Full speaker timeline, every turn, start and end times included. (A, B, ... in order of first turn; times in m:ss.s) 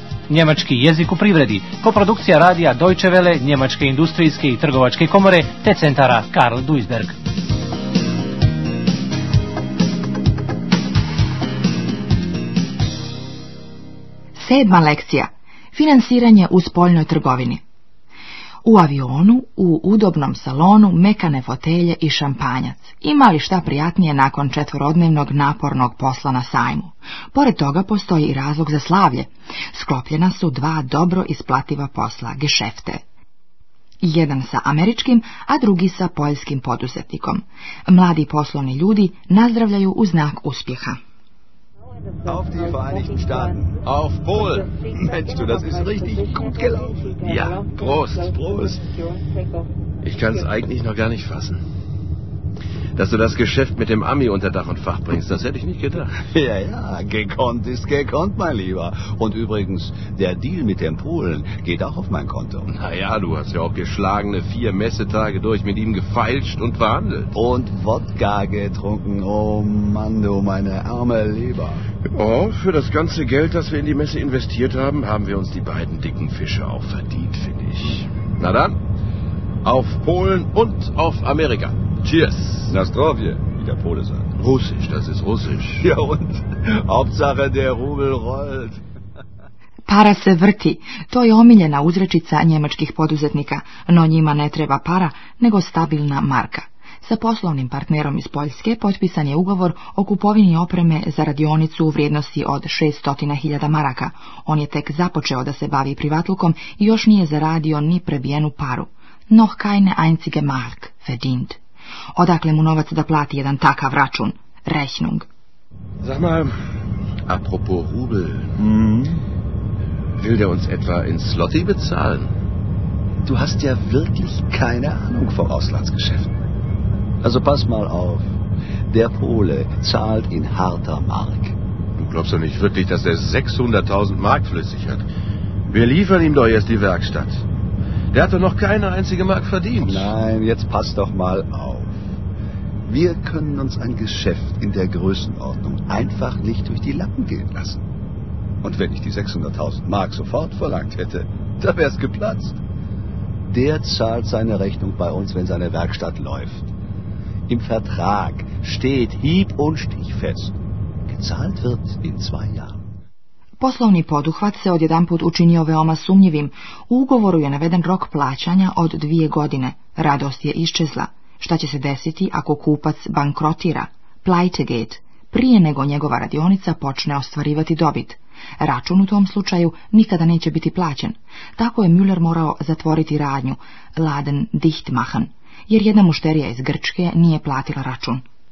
0:00.3-0:07.2 A
0:14.4-0:17.6 B
0:18.6-0:33.0 B
0:34.0-0:41.0 B
0:42.2-0:43.8 C
0:43.8-0:44.7 D
0:44.9-0:48.8 C
0:47.2-0:48.3 D
0:50.0-0:51.6 D
0:52.9-0:56.2 D
0:56.2-1:02.7 C
1:02.7-1:07.4 D
1:07.3-1:11.8 C
1:12.1-1:18.8 D
1:19.6-1:22.7 D
1:22.7-1:24.3 C
1:24.4-1:25.9 D
1:25.8-1:28.8 C
1:29.9-1:51.6 B
1:52.2-1:55.3 B
1:56.0-1:56.6 D
1:57.2-1:58.6 D
1:58.6-1:59.2 C
2:00.2-2:02.3 D
2:03.2-2:06.3 C
2:07.2-2:08.3 C
2:08.9-2:11.6 C
2:12.0-2:15.1 D
2:15.7-2:17.4 D
2:18.1-2:20.1 D
2:19.8-2:22.0 C
2:22.9-2:27.8 C
2:28.6-2:32.6 C
2:33.5-2:36.7 C
2:37.5-2:42.8 C
2:43.6-3:08.2 B